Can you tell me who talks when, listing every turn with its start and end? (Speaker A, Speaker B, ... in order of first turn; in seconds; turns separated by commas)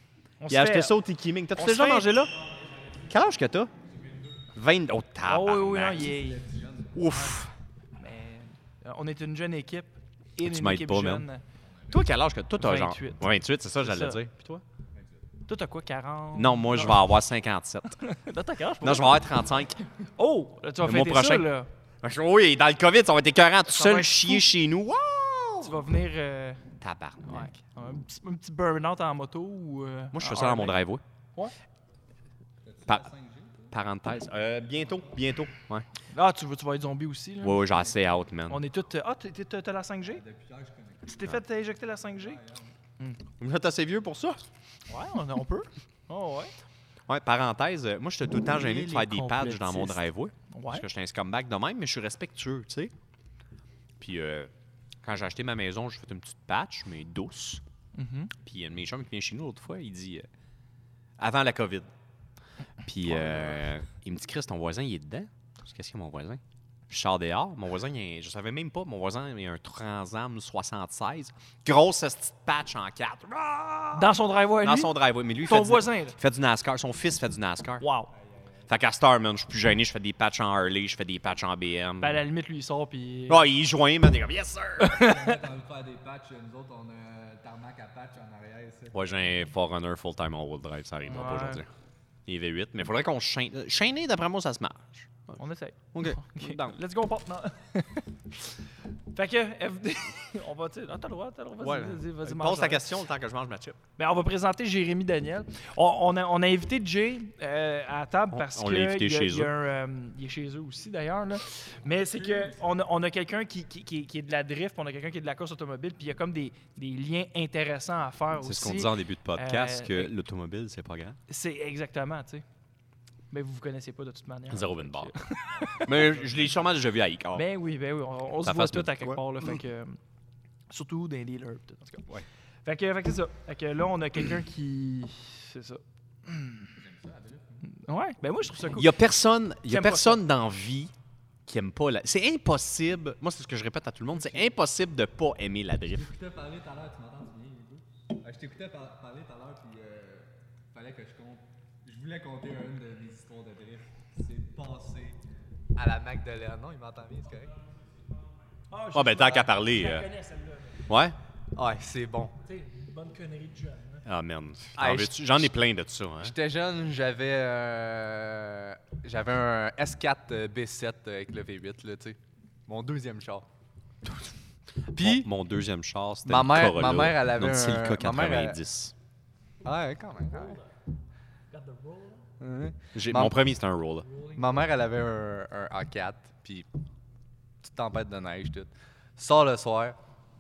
Speaker A: 0.4-0.9, Speaker B: 0.5-2.3, Speaker A: 1.6-2.1, Speaker B: 3.0-3.7, Speaker B: 4.5-6.1, Speaker A: 5.3-6.5, Speaker C: 6.1-7.0, Speaker B: 6.9-7.5, Speaker A: 7.1-7.4, Speaker A: 8.0-11.4, Speaker B: 10.4-11.2, Speaker B: 11.9-14.6, Speaker A: 12.6-13.3, Speaker A: 13.8-14.2, Speaker A: 15.5-17.1, Speaker B: 16.4-18.0, Speaker A: 18.0-19.2, Speaker B: 18.8-19.8, Speaker A: 20.2-21.7, Speaker B: 20.8-21.5, Speaker B: 22.0-25.7, Speaker A: 23.7-24.5, Speaker A: 25.6-26.6, Speaker B: 26.8-27.6, Speaker A: 27.2-30.8, Speaker B: 30.1-31.0, Speaker C: 32.6-33.7, Speaker B: 33.7-35.9, Speaker C: 34.7-35.2, Speaker A: 36.1-37.7, Speaker B: 37.4-38.6, Speaker A: 38.5-40.2, Speaker C: 40.1-41.2, Speaker A: 41.1-42.4, Speaker C: 42.2-42.7, Speaker B: 43.4-44.5, Speaker A: 44.9-46.5, Speaker B: 47.1-52.9, Speaker A: 48.5-50.9, Speaker B: 54.0-54.5, Speaker B: 55.0-57.6, Speaker A: 58.0-58.3, Speaker B: 58.4-60.3, Speaker B: 61.2-61.9, Speaker B: 62.8-77.8, Speaker A: 74.0-76.2, Speaker A: 77.8-78.1, Speaker C: 78.2-78.5, Speaker B: 78.7-82.2, Speaker A: 82.0-83.5, Speaker B: 83.3-85.1, Speaker A: 84.8-85.4, Speaker C: 85.0-89.1, Speaker B: 88.9-91.7, Speaker A: 91.1-91.6, Speaker B: 92.3-95.4, Speaker A: 95.4-98.5, Speaker B: 95.9-96.8, Speaker A: 99.1-102.9, Speaker B: 101.6-103.8, Speaker A: 104.0-120.1, Speaker B: 108.3-109.5, Speaker B: 118.4-121.2, Speaker A: 121.3-122.4, Speaker A: 123.3-125.9, Speaker B: 124.5-125.1, Speaker C: 125.6-126.6, Speaker B: 125.8-127.5, Speaker A: 127.3-130.0, Speaker B: 128.4-129.6, Speaker A: 130.7-132.1, Speaker A: 132.6-136.7, Speaker C: 136.8-137.6, Speaker A: 137.6-139.0, Speaker B: 138.7-140.9, Speaker A: 139.7-140.2, Speaker B: 141.4-146.1, Speaker C: 145.9-155.2, Speaker C: 155.7-157.6, Speaker A: 158.7-160.8, Speaker B: 158.9-160.1, Speaker B: 160.9-161.2, Speaker C: 161.5-162.4, Speaker A: 162.4-164.0, Speaker B: 164.1-166.3, Speaker C: 164.8-165.5, Speaker C: 166.2-173.4, Speaker B: 174.9-178.9, Speaker C: 174.9-175.3, Speaker C: 176.3-178.6, Speaker C: 179.6-180.6, Speaker A: 181.5-182.2, Speaker C: 182.4-183.4, Speaker B: 182.9-184.1, Speaker C: 184.2-186.7, Speaker C: 187.6-189.9